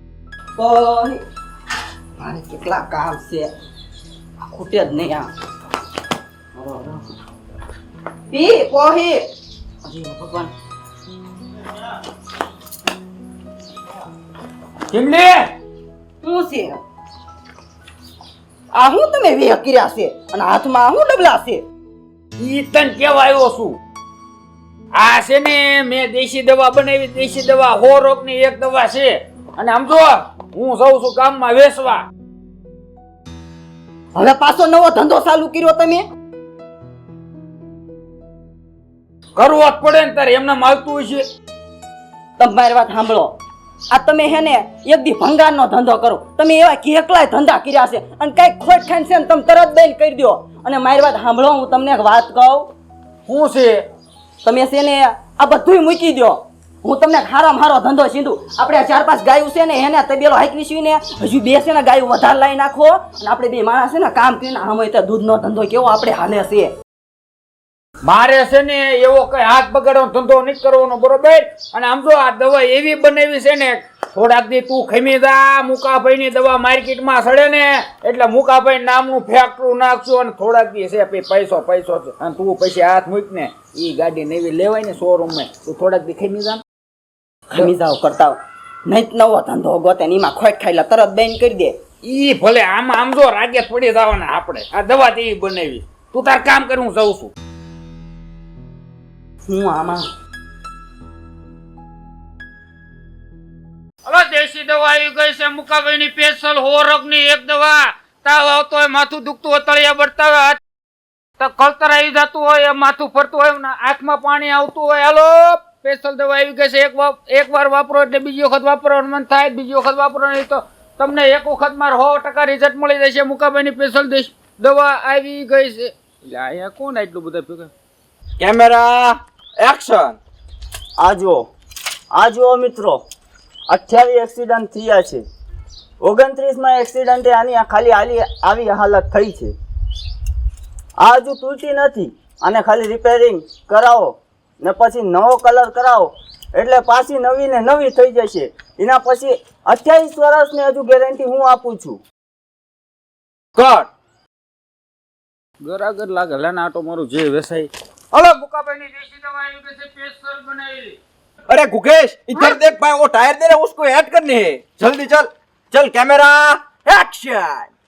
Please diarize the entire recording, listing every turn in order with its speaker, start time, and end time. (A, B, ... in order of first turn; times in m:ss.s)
0:00.6-0:01.2 A
0:02.2-0:03.5 A
0:04.5-0:05.3 A
0:06.5-0:07.1 A
0:08.3-0:09.3 A
0:09.8-0:10.5 A
0:14.9-0:15.5 B
0:16.2-0:16.8 A
0:18.7-0:21.6 A
0:22.4-0:23.8 B
0:25.0-0:32.0 B
0:34.1-0:36.0 A
0:39.4-0:41.2 B
0:42.4-0:43.4 A
0:43.9-0:52.7 A
0:53.3-0:53.8 B
0:54.4-1:06.7 A
1:08.0-1:26.6 B
1:27.5-1:31.8 A
1:32.0-1:37.3 B
1:39.5-1:40.1 A
1:44.0-1:50.6 B
1:51.4-2:07.7 B
2:08.4-2:10.2 C
2:11.0-2:11.4 D
2:12.1-2:13.0 D
2:13.7-2:15.2 D
2:16.0-2:19.5 D
2:21.0-2:32.0 D
2:35.6-2:41.0 B
2:41.5-2:47.7 C